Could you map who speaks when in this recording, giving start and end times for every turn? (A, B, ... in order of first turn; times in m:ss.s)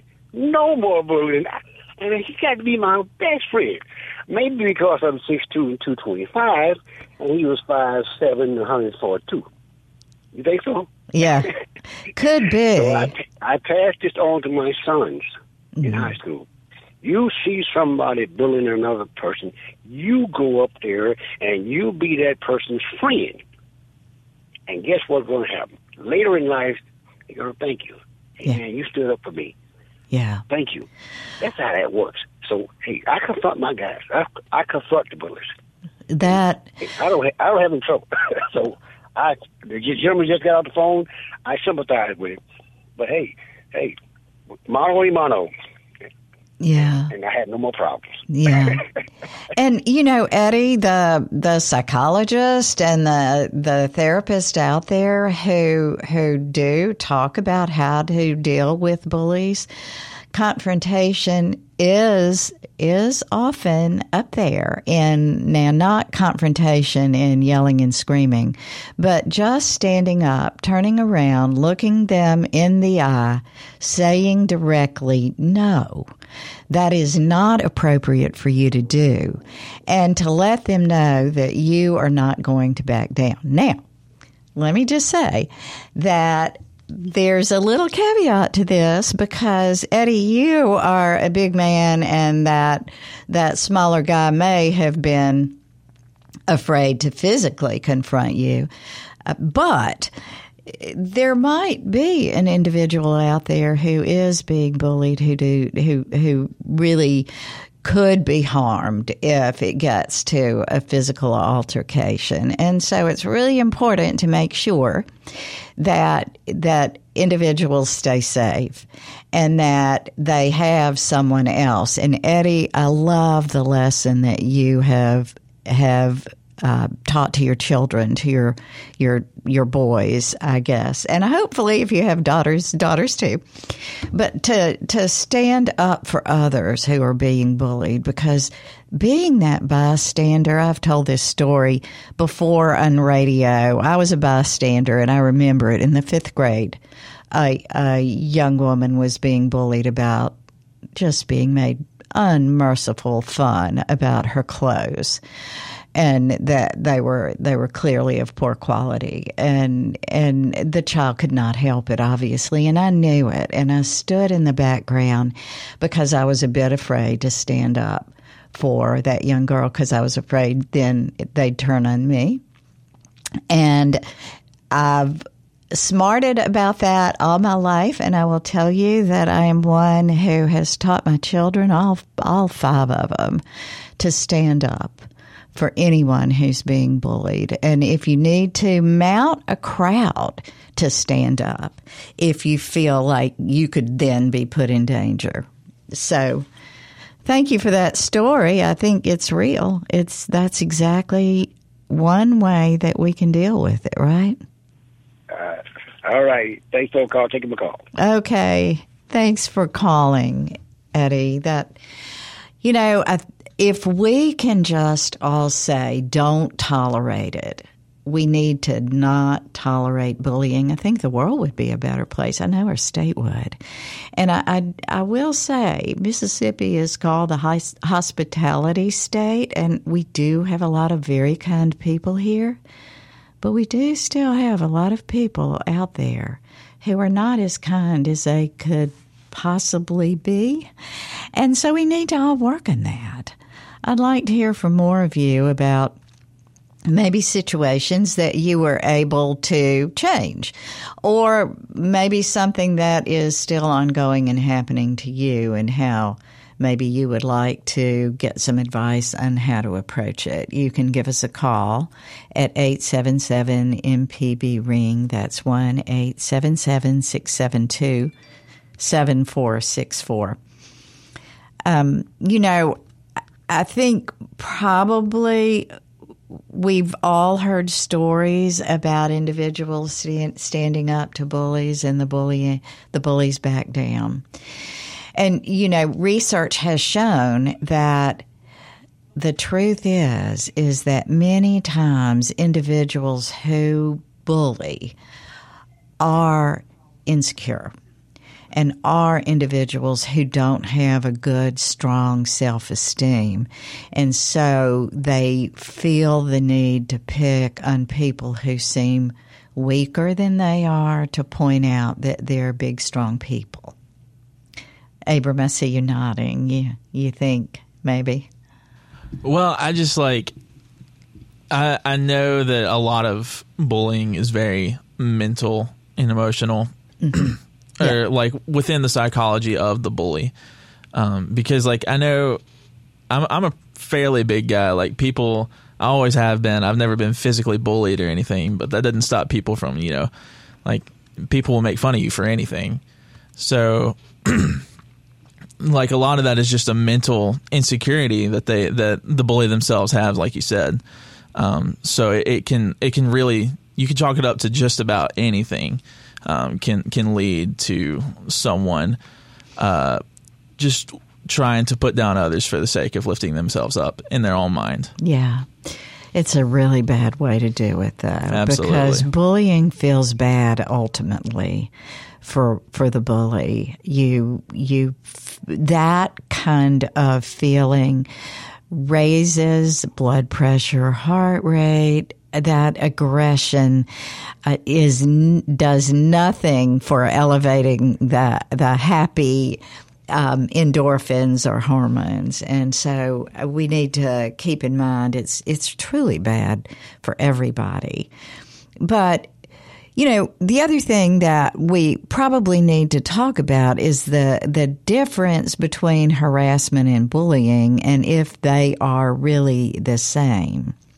0:00.3-0:09.4 A
0:10.3-0:11.5 A
0:11.2-0:11.5 B
0:12.1-0:13.1 B
0:12.7-0:15.2 A
0:15.8-0:16.1 B
0:15.8-0:16.5 A
0:17.0-0:23.4 A
0:24.7-0:29.5 A
0:30.1-0:30.4 B
0:30.5-0:30.9 A
0:31.4-0:35.4 A
0:36.1-0:36.7 B
0:36.8-0:42.4 A
0:43.0-0:43.9 A
0:44.7-0:45.5 A
0:46.6-0:47.1 B
0:47.1-0:48.8 A
0:48.3-0:48.8 B
0:49.5-0:59.7 B
1:00.3-1:16.1 B
1:16.7-1:23.8 B
1:24.6-1:35.6 B
1:36.5-1:38.7 B
1:39.2-1:40.1 B
1:40.6-1:47.3 B
1:47.8-1:55.1 B
1:55.8-2:13.4 B
2:14.1-2:26.8 B
2:27.3-2:30.3 B
2:31.0-2:35.2 B
2:35.9-2:52.4 B
2:53.5-2:54.0 B
2:54.7-3:03.4 B
3:04.0-3:16.4 B
3:17.2-3:24.4 B
3:25.3-3:27.8 A
3:28.0-3:31.8 B
3:32.6-3:43.6 B
3:44.2-3:52.6 B
3:53.4-4:00.7 B
4:01.3-4:06.0 B
4:06.8-4:28.1 B
4:28.8-4:30.4 B
4:31.6-4:32.8 B
4:33.5-4:35.7 B
4:36.5-4:44.2 B
4:45.2-4:48.2 B
4:49.2-4:54.9 B
4:56.0-4:57.7 B
4:58.5-5:13.7 B
5:15.1-5:18.3 B
5:19.2-5:20.3 C
5:21.5-5:30.3 C
5:27.0-5:28.0 B
5:30.9-5:32.4 C
5:33.1-5:40.1 C
5:40.6-5:42.8 C
5:43.4-5:44.6 C
5:45.6-5:50.8 C
5:51.3-5:59.0 C
5:59.6-6:00.0 C
6:00.6-6:04.9 C
6:05.0-6:11.7 B
6:08.3-6:09.0 C
6:12.2-6:18.1 B
6:18.7-6:23.9 B
6:24.4-6:38.1 B
6:38.8-6:39.3 B
6:40.0-6:50.7 B